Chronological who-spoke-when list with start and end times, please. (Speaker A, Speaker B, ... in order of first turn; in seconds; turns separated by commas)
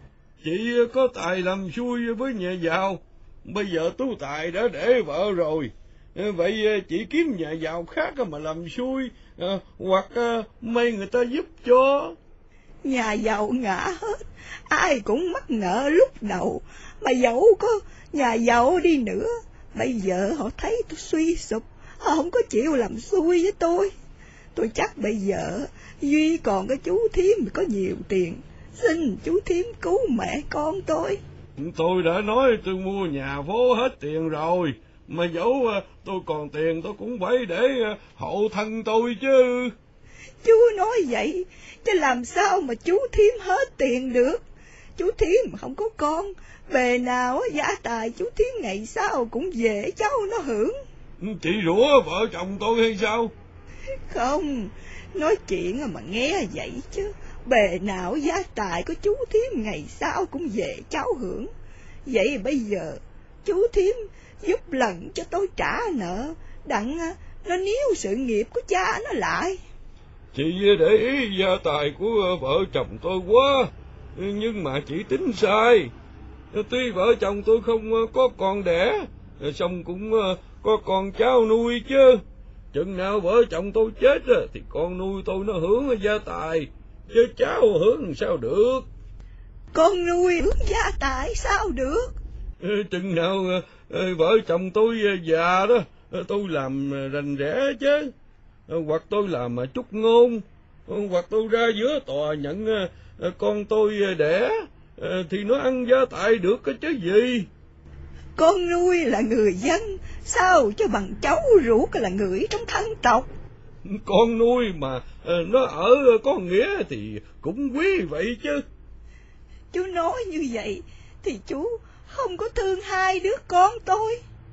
Speaker A: 0.4-12.2, Speaker B: 12.8-23.9, Speaker B: 24.5-31.2, Speaker A: 31.6-39.7, Speaker B: 40.4-44.4, Speaker B: 45.0-50.7, Speaker A: 51.2-53.3, Speaker B: 54.1-61.5, Speaker B: 62.0-69.6, Speaker A: 70.3-75.9, Speaker A: 76.5-82.2, Speaker A: 82.7-88.9, Speaker B: 89.7-92.2, Speaker A: 92.6-98.1, Speaker A: 98.7-107.5, Speaker B: 108.4-113.3, Speaker A: 113.8-118.6, Speaker B: 119.7-124.2